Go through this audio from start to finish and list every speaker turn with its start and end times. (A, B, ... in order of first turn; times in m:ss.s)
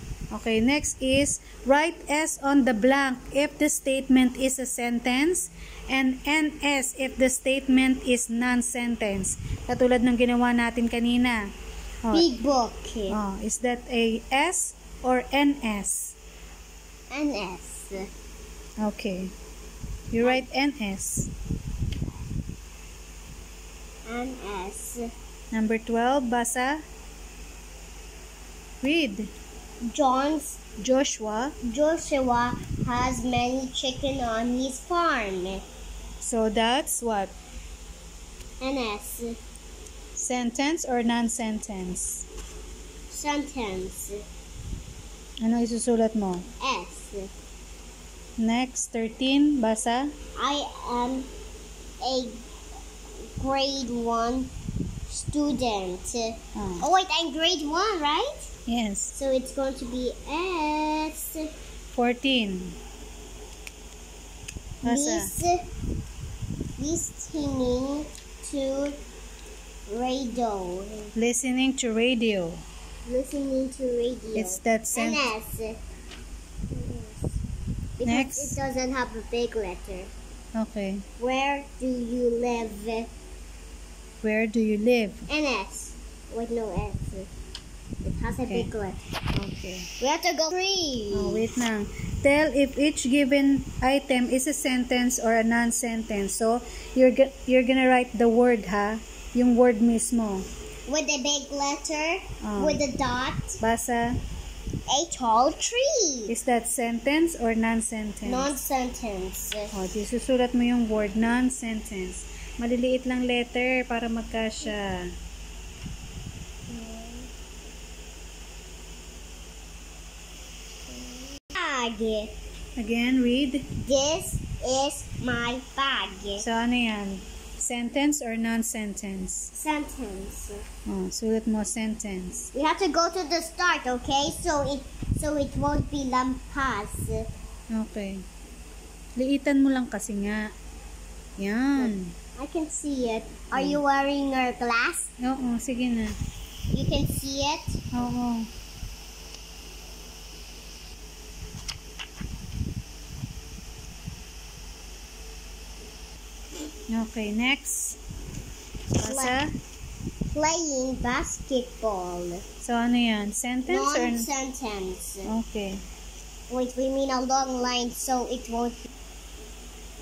0:00.3-0:11.4 A
0:12.1-0:13.2 B
0:13.1-0:16.2 A
0:17.1-0:18.1 B
0:18.8-0:19.3 A
0:20.1-0:21.3 A
0:24.1-0:25.1 B
0:25.5-0:26.8 A
0:28.8-0:29.3 A
0:29.9-0:30.6 B
0:30.8-0:31.6 A
0:31.6-0:35.6 B
0:36.2-0:37.3 A
0:38.6-0:39.4 B
0:40.2-0:42.2 A
0:43.1-0:44.2 B
0:45.4-0:46.5 A
0:46.6-0:47.3 B
0:48.4-0:50.1 A
0:50.4-0:51.3 B
0:52.0-0:52.4 B
0:53.4-0:54.5 B
0:55.1-0:58.5 B
0:56.6-0:56.9 A
0:58.7-0:59.2 A
0:59.1-1:01.5 B
1:01.9-1:02.8 A
1:04.8-1:05.3 A
1:04.8-1:05.7 B
1:06.8-1:09.0 B
1:09.9-1:11.1 B
1:11.2-1:12.6 A
1:13.1-1:15.8 B
1:14.4-1:15.3 A
1:16.7-1:17.4 B
1:18.0-1:20.1 B
1:18.0-1:18.6 A
1:20.6-1:21.0 A
1:21.2-1:23.1 B
1:24.2-1:25.3 A
1:25.3-1:27.3 B
1:28.0-1:29.0 B
1:28.4-1:28.7 A
1:29.4-1:29.9 A
1:30.0-1:31.5 B
1:31.1-1:40.5 A
1:40.9-1:43.6 B
1:42.4-1:42.8 A
1:43.6-1:44.2 A
1:44.9-1:46.4 B
1:46.3-1:48.6 A
1:48.2-1:49.8 B
1:49.7-1:55.1 A
1:56.7-1:57.3 B
2:01.0-2:02.3 B
2:02.8-2:03.7 A
2:03.8-2:06.5 B
2:06.4-2:09.5 A
2:09.5-2:10.6 B
2:10.9-2:12.5 A
2:12.5-2:17.3 B
2:17.7-2:18.2 A
2:19.2-2:20.5 A
2:21.4-2:22.1 A
2:21.8-2:25.1 B
2:23.6-2:23.8 A
2:25.2-2:26.2 A
2:26.7-2:27.8 B
2:27.9-2:28.5 A
2:36.9-2:38.0 A
2:39.0-2:39.4 B
2:39.0-2:39.6 A
2:40.3-2:42.4 B
2:42.6-2:44.3 A
2:43.7-2:45.3 B
2:45.2-2:45.8 A
2:46.5-2:48.8 B